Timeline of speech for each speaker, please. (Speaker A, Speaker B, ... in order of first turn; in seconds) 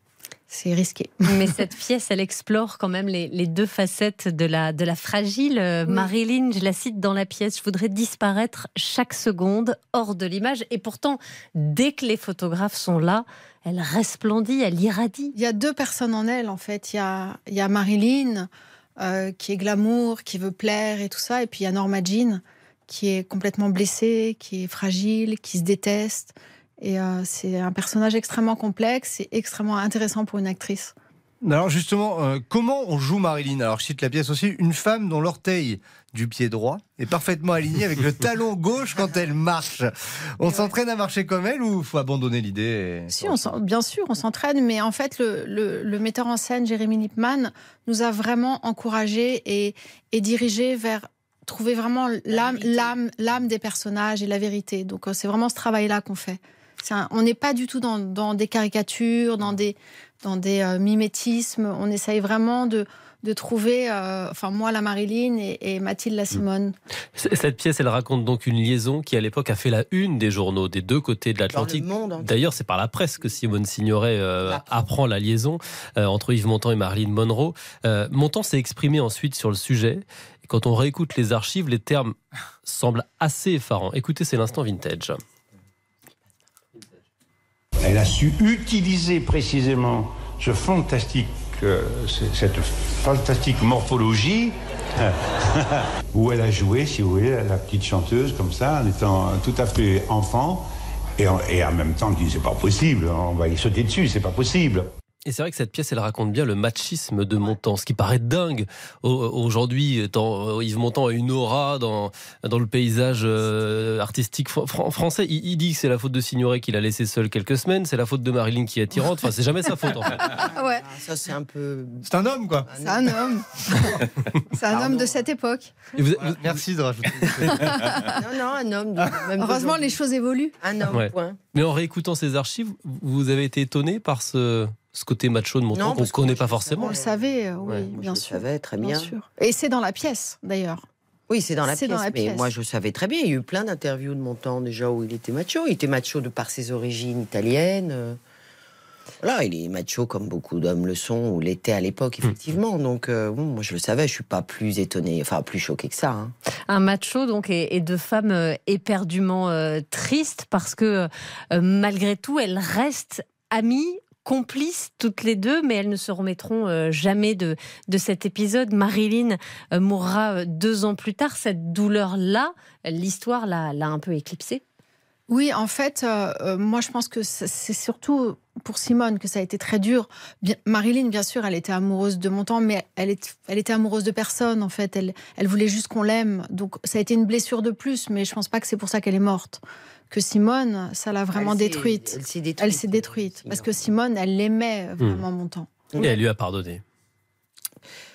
Speaker A: 0.5-1.5, 5.8-6.1, 15.3-30.9, 40.5-40.7, 43.1-66.8, 120.3-120.8, 122.8-125.8, 127.5-128.2, 129.4-130.6, 136.8-140.8, 141.6-142.5, 175.3-196.1
Speaker B: 1.3-15.3, 156.7-174.6
Speaker C: 31.4-43.5, 122.0-122.7, 126.2-127.8
Speaker D: 52.3-53.0, 71.5-72.5, 74.5-74.9, 120.4-122.1, 122.6-123.2, 124.7-125.2, 128.2-130.0, 130.6-131.4, 135.7-137.3, 137.8-139.1, 141.3-148.2, 149.2-156.3, 191.3-193.9
Speaker E: 67.2-85.2, 105.2-120.2, 126.0-126.6, 130.9-136.9, 196.0-196.8
Speaker F: 87.8-104.9